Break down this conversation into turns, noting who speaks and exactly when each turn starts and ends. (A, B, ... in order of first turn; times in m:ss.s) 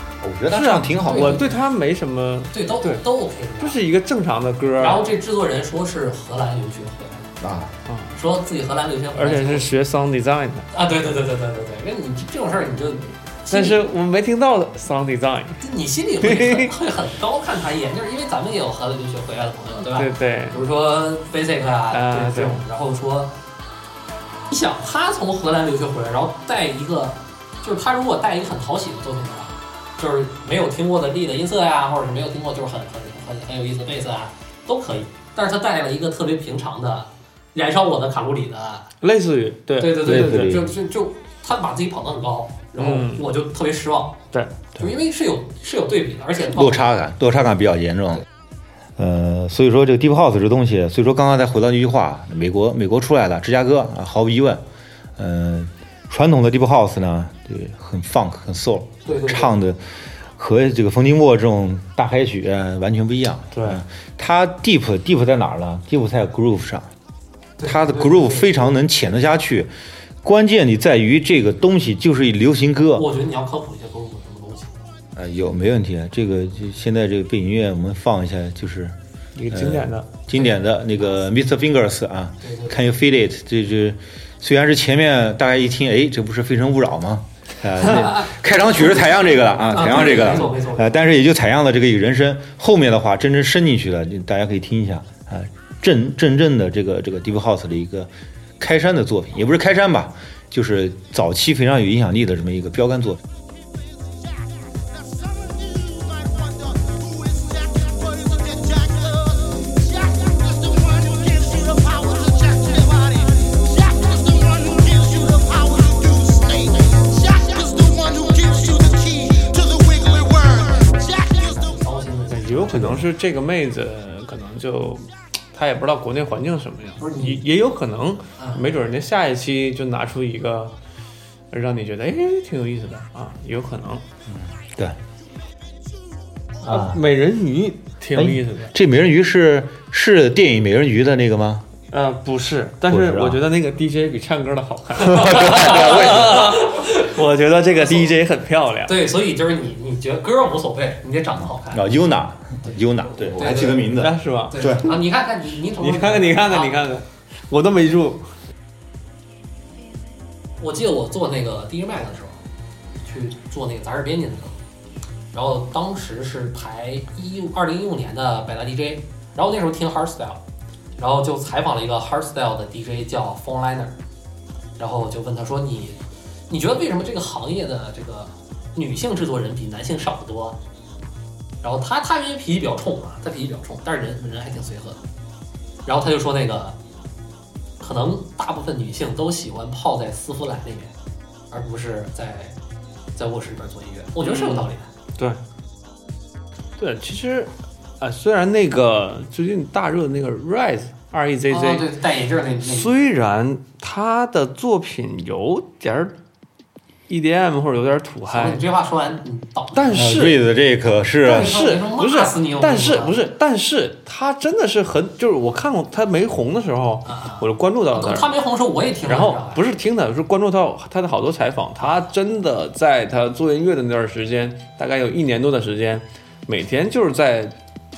0:00.2-0:01.5 A
0:00.5-0:03.0 B
0:01.0-0:01.6 C
0:02.5-0:03.8 C
0:03.6-0:05.1 B
0:04.8-0:07.4 C
0:07.4-0:07.7 A
0:07.8-0:08.1 B
0:08.1-0:09.7 C
0:09.1-0:10.7 B
0:10.7-0:13.8 C
0:13.5-0:15.6 B
0:15.6-0:23.3 C
0:16.2-0:16.7 B
0:19.8-0:20.6 B
0:21.9-0:22.6 B
0:24.5-0:38.9 C
0:39.0-0:40.6 B
0:39.8-0:44.2 C
0:40.0-0:40.7 A
0:42.8-0:43.3 B
0:44.3-0:44.6 B
0:44.8-0:46.9 C
0:46.4-0:48.2 A
0:49.0-0:54.6 A
0:55.2-1:06.9 A
0:59.0-0:59.6 C
1:03.5-1:03.8 B
1:07.6-1:08.7 C
1:07.6-1:09.7 A
1:10.2-1:13.1 A
1:12.9-1:14.7 C
1:15.1-1:19.0 A
1:19.3-1:20.1 B
1:19.5-1:43.2 A
1:22.4-1:22.8 C
1:29.7-1:31.0 C
2:00.6-2:03.0 C
2:02.3-2:10.7 B
2:07.0-2:07.4 C
2:08.4-2:08.6 C
2:11.5-2:14.0 B
2:14.3-2:15.0 A
2:16.6-2:18.7 B
2:16.6-2:17.0 A
2:18.1-2:21.6 A
2:21.9-2:29.0 B
2:22.9-2:23.4 A
2:25.1-2:27.1 C
2:25.2-2:26.3 A
2:27.8-2:28.1 C
2:28.8-2:31.8 C
2:31.7-2:35.0 A
2:32.7-2:36.8 C
2:33.8-2:34.8 B
2:35.8-2:38.2 B
2:40.6-2:42.4 C
2:43.0-2:44.6 C
2:45.3-2:50.4 C
2:51.0-2:54.0 C
2:54.8-3:00.6 C
3:01.6-3:05.0 C
3:05.8-3:06.8 C
3:07.8-3:10.9 C
3:11.5-3:12.6 C
3:13.1-3:14.9 C
3:14.2-3:15.4 B
3:16.8-3:21.9 B
3:21.5-3:22.9 C
3:22.6-3:26.2 B
3:27.1-3:28.6 B
3:28.3-3:30.1 C
3:29.7-3:30.4 B
3:29.9-3:31.6 A
3:31.2-3:33.2 C
3:31.2-3:38.4 B
3:37.0-3:39.6 C
3:39.0-3:47.6 B